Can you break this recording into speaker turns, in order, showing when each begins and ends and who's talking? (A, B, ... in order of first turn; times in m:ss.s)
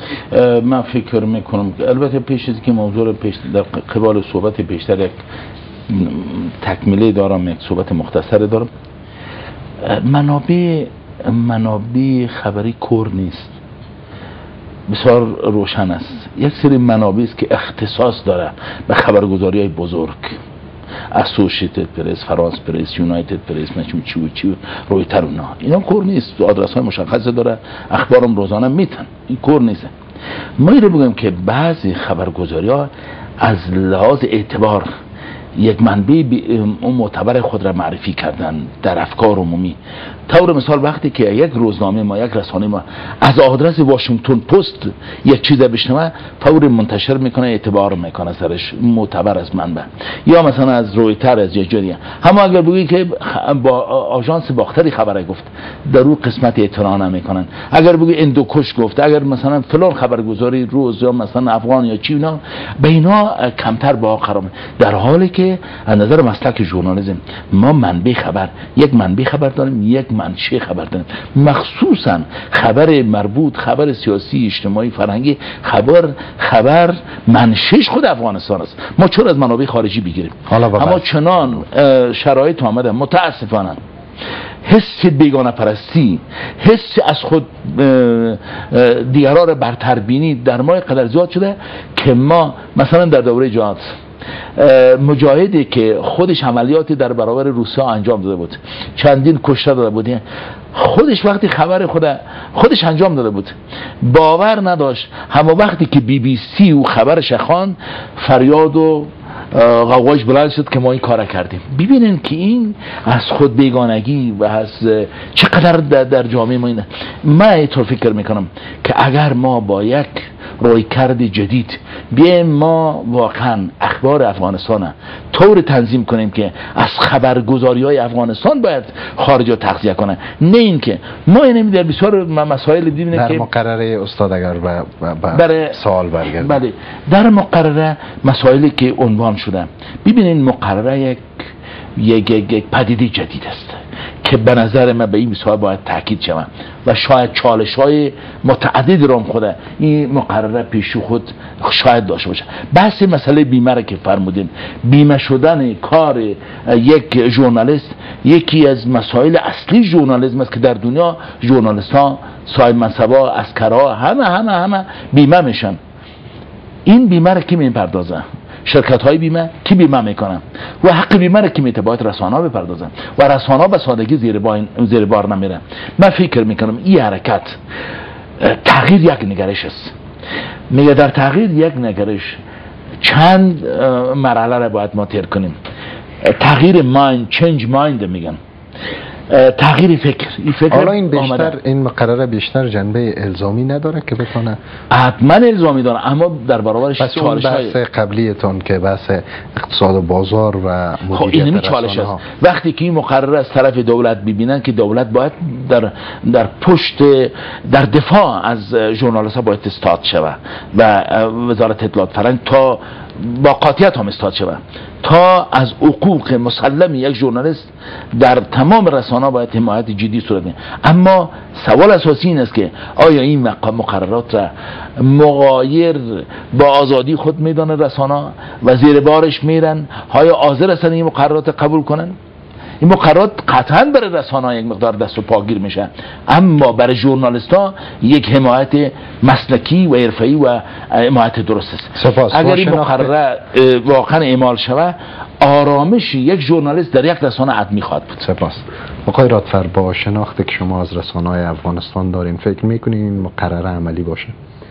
0:00.3-0:05.2 A
0:05.9-0:08.7 A
0:09.8-0:13.6 A
0:14.9-0:20.4 A
0:21.1-0:29.9 A
0:30.6-0:32.9 A
0:33.4-0:34.9 A
0:35.6-1:23.8 A
1:20.5-1:21.4 B
1:24.6-1:33.8 A
1:34.6-1:40.2 A
1:40.7-2:13.5 A
2:13.1-2:16.6 B
2:15.3-2:15.7 A
2:16.4-2:21.2 A
2:22.0-2:45.8 A
2:46.8-2:57.6 A
2:58.4-2:59.9 A
3:00.7-3:02.4 A
3:03.0-3:05.6 A
3:06.2-3:08.4 A
3:09.3-3:11.6 A
3:10.7-3:14.6 B
3:14.9-3:17.8 A
3:17.0-3:22.2 B
3:21.1-3:52.1 A
3:52.8-4:08.2 A
4:02.0-4:03.1 B
4:08.2-4:14.3 B